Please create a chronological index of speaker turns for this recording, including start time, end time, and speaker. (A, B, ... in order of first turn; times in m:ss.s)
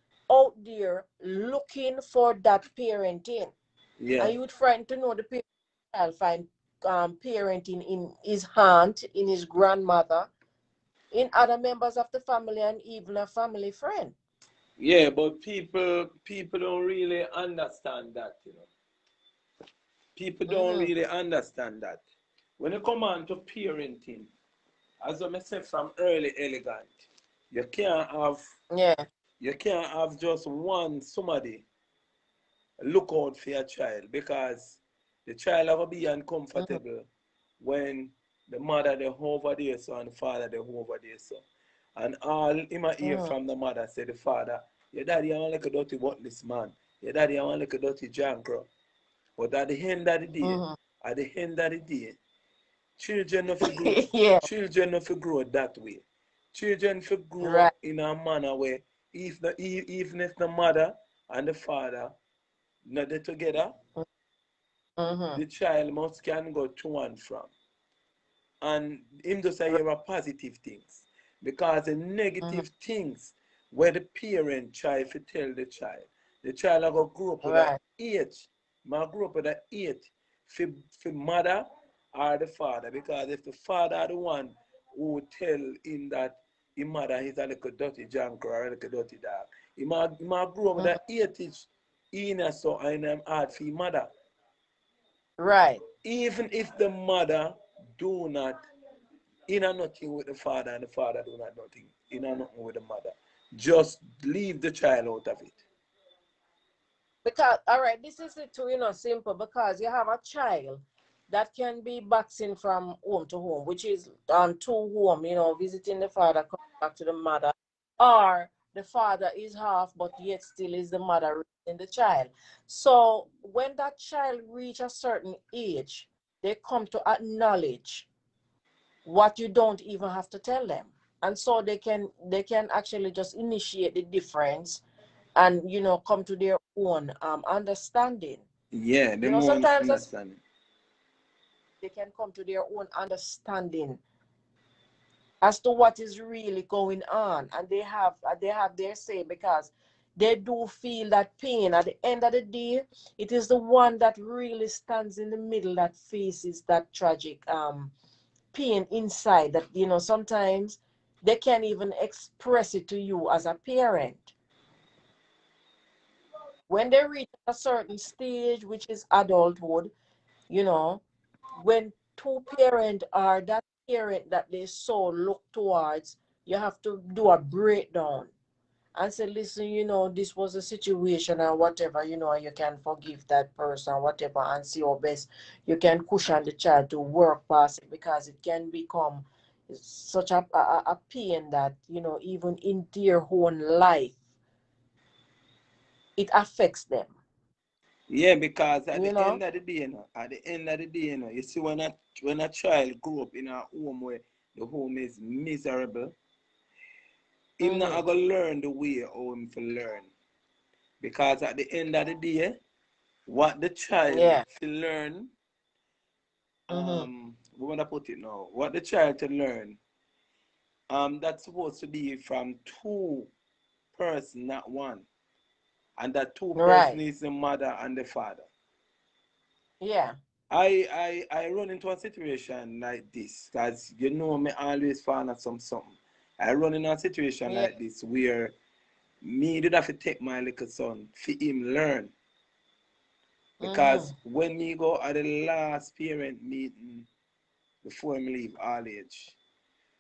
0:00.3-0:03.5 A
0:04.0-0:04.4 B
0:04.2-0:10.3 A
0:11.1-0:14.2 A
0:14.8-0:18.7 B
0:20.2-0:22.0 B
0:20.5-0:20.9 A
0:22.6-0:24.3 B
0:25.0-0:26.9 B
0:27.5-0:28.4 B
0:28.7-0:29.0 A
0:29.4-0:31.6 B
0:32.8-0:37.1 B
0:37.6-0:41.4 B
0:42.0-0:48.7 B
0:43.0-0:43.4 A
0:49.4-0:52.2 B
0:50.4-0:50.8 A
0:53.0-0:56.0 B
0:53.6-0:54.5 A
0:56.5-1:02.1 B
0:57.4-0:57.7 A
1:02.8-1:03.8 B
1:05.0-1:05.4 A
1:05.4-1:07.5 B
1:08.6-1:34.1 B
1:17.4-1:17.8 A
1:35.4-1:35.8 A
1:36.0-1:38.6 B
1:39.5-1:45.6 B
1:47.2-2:08.1 A
2:09.0-2:14.8 A
2:15.4-2:18.4 A
2:18.7-2:20.4 B
2:19.2-2:20.0 A
2:21.8-2:24.0 A
2:25.4-2:37.9 A
2:38.5-2:44.3 A
2:46.7-2:49.9 A
2:50.5-2:51.0 A
2:51.6-2:58.3 A
2:59.0-3:14.2 A
3:16.2-3:17.1 A
3:18.1-3:26.2 B
3:18.9-3:19.4 A
3:27.6-3:30.1 B
3:27.6-3:28.0 A
3:31.0-3:32.6 B
3:33.3-3:35.3 B
3:34.1-3:34.4 A
3:36.7-3:39.8 B
3:36.7-3:37.1 A
3:40.9-3:43.3 B
3:44.0-3:45.1 B
3:46.0-3:48.5 B
3:46.6-3:47.0 A
3:49.8-3:50.2 A
3:50.5-3:58.6 B
3:59.2-4:02.1 B
4:03.6-4:04.1 A
4:03.6-4:07.1 B
4:07.8-4:09.4 B